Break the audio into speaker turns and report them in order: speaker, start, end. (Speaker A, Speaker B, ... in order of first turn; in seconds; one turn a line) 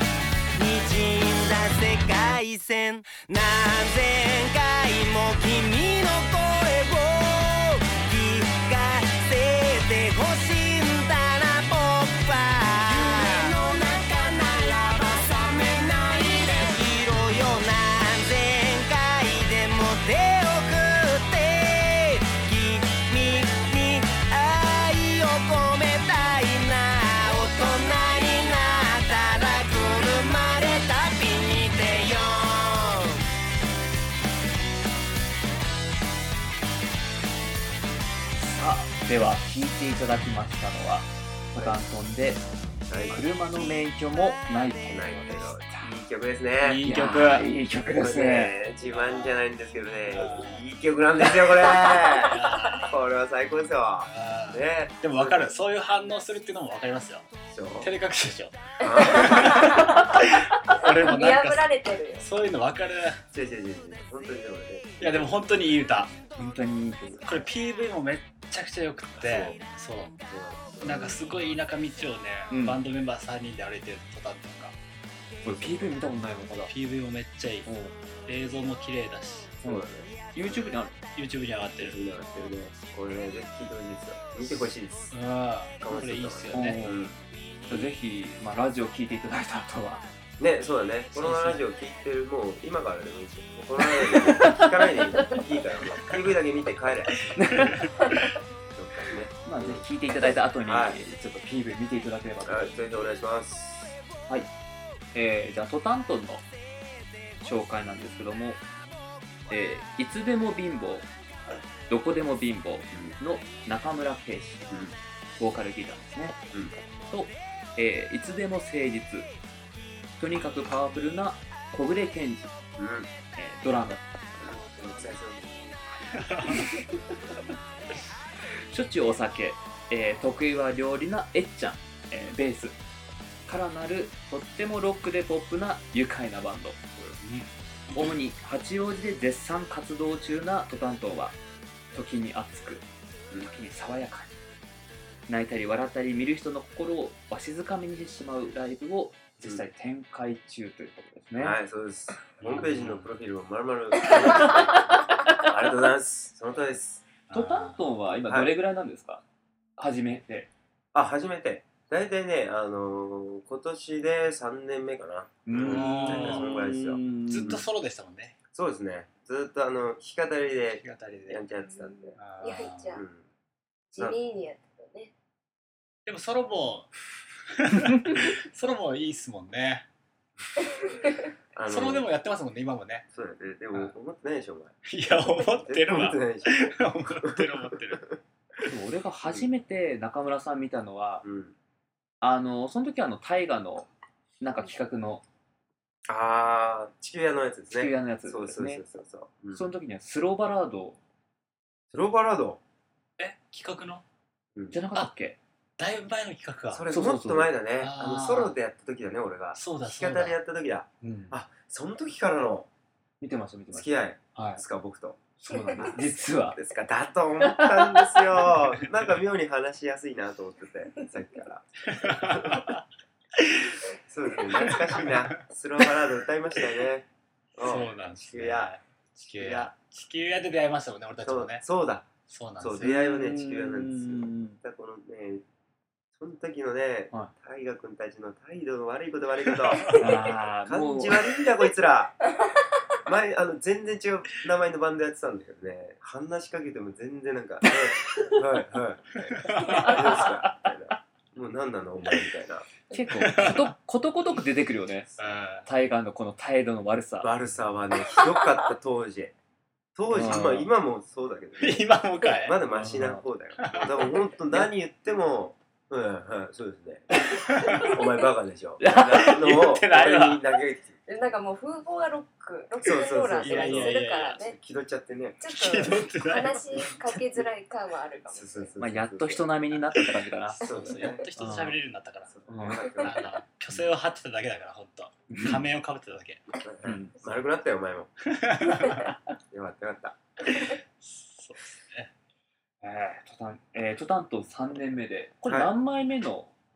Speaker A: 0.6-33.2
Speaker B: 12.8-13.6
Speaker C: 38.4-42.5
Speaker D: 42.9-43.2
Speaker C: 43.1-45.9
Speaker D: 44.9-46.8
Speaker E: 46.6-47.5
Speaker C: 46.8-48.5
Speaker D: 47.9-55.5
Speaker E: 48.9-49.5
Speaker E: 50.1-50.7
Speaker E: 51.6-53.0
Speaker B: 51.7-52.8
Speaker E: 54.1-57.3
Speaker D: 57.5-57.9
Speaker E: 57.8-63.2
Speaker D: 58.8-59.7
Speaker B: 58.8-60.1
Speaker B: 61.0-62.2
Speaker D: 63.3-65.5
Speaker E: 65.0-66.1
Speaker C: 66.3-67.3
Speaker E: 67.3-70.2
Speaker D: 69.2-69.6
Speaker D: 70.3-71.4
Speaker E: 70.8-74.8
Speaker C: 72.5-72.8
Speaker C: 75.4-76.7
Speaker D: 75.6-75.9
Speaker E: 76.7-77.7
Speaker C: 77.7-77.9
Speaker E: 78.3-79.6
Speaker D: 79.6-80.6
Speaker C: 79.6-81.0
Speaker E: 81.2-82.0
Speaker D: 81.8-85.2
Speaker E: 85.1-86.9
Speaker D: 85.8-87.2
Speaker C: 86.5-87.1
Speaker C: 87.7-90.0
Speaker D: 90.4-97.7
Speaker E: 91.2-91.6
Speaker C: 94.0-95.0
Speaker C: 97.3-97.8
Speaker D: 98.7-99.9
Speaker C: 99.4-102.8
Speaker D: 100.6-101.0
Speaker D: 102.4-104.0
Speaker C: 105.1-106.5
Speaker C: 107.4-108.6
Speaker C: 109.5-111.1
Speaker C: 111.9-114.7
Speaker D: 114.7-115.0
Speaker C: 115.4-116.4
Speaker C: 117.1-119.3
Speaker C: 120.2-122.5
Speaker D: 122.8-123.1
Speaker C: 123.3-124.1
Speaker D: 124.4-125.8
Speaker C: 128.7-132.8
Speaker C: 133.5-136.8
Speaker E: 137.2-138.2
Speaker C: 137.9-141.4
Speaker C: 141.9-142.8
Speaker C: 143.4-144.3
Speaker C: 145.3-151.6
Speaker D: 151.4-157.1
Speaker E: 152.4-153.1
Speaker E: 157.3-157.8
Speaker C: 157.3-159.2
Speaker C: 159.8-160.5
Speaker D: 160.9-167.7
Speaker C: 165.5-167.6
Speaker E: 165.5-166.7
Speaker E: 167.2-168.3
Speaker D: 168.5-172.2
Speaker E: 170.7-171.4
Speaker B: 171.7-173.0
Speaker E: 172.2-173.0
Speaker D: 172.9-173.2
Speaker B: 173.9-175.1
Speaker E: 176.1-176.9
Speaker E: 177.6-179.9
Speaker D: 181.5-182.1
Speaker E: 181.7-183.1
Speaker D: 183.1-184.8
Speaker E: 184.9-188.1
Speaker D: 185.4-188.0
Speaker C: 188.7-191.3
Speaker D: 191.2-191.6
Speaker C: 192.2-193.9
Speaker C: 194.4-195.2
Speaker D: 196.1-199.7
Speaker C: 197.7-198.8
Speaker C: 199.5-201.0
Speaker D: 201.9-202.6
Speaker E: 203.2-204.0
Speaker C: 204.7-205.4
Speaker E: 205.8-206.8
Speaker D: 206.7-212.7
Speaker C: 206.9-207.5
Speaker E: 207.8-208.6
Speaker E: 209.6-210.4
Speaker C: 211.0-211.3
Speaker C: 213.2-214.6
Speaker D: 213.7-215.2
Speaker C: 215.4-216.6
Speaker D: 215.8-222.7
Speaker C: 217.4-218.2
Speaker E: 221.9-222.8
Speaker D: 224.1-228.7
Speaker E: 224.7-225.3
Speaker E: 227.6-231.7
Speaker D: 229.3-229.7
Speaker D: 231.2-235.4
Speaker E: 232.3-232.9
Speaker C: 232.8-234.6
Speaker D: 236.2-242.1
Speaker C: 240.0-241.2
Speaker D: 243.1-252.7
Speaker E: 249.4-249.9
Speaker C: 249.7-250.7
Speaker C: 252.9-255.1
Speaker E: 253.2-253.7
Speaker E: 255.2-255.7
Speaker C: 255.7-257.3
Speaker D: 257.2-259.3
Speaker D: 260.0-271.0
Speaker C: 260.1-260.7
Speaker E: 261.6-263.0
Speaker C: 262.7-263.2
Speaker E: 263.6-264.1
Speaker E: 267.5-267.9
Speaker C: 268.8-269.2
Speaker E: 268.9-270.4
Speaker B: 271.1-274.6
Speaker D: 272.8-275.4
Speaker E: 273.4-274.4
Speaker B: 275.4-278.7
Speaker E: 275.5-277.0
Speaker D: 278.3-279.5
Speaker C: 278.8-280.6
Speaker E: 280.6-286.4
Speaker D: 280.6-281.3
Speaker C: 281.4-281.8
Speaker D: 282.3-283.3
Speaker C: 282.5-282.9
Speaker C: 285.3-285.6
Speaker D: 286.6-288.1
Speaker C: 286.9-287.4
Speaker E: 288.3-289.1
Speaker D: 289.5-290.2
Speaker E: 291.0-292.1
Speaker C: 292.8-296.5
Speaker D: 295.5-295.7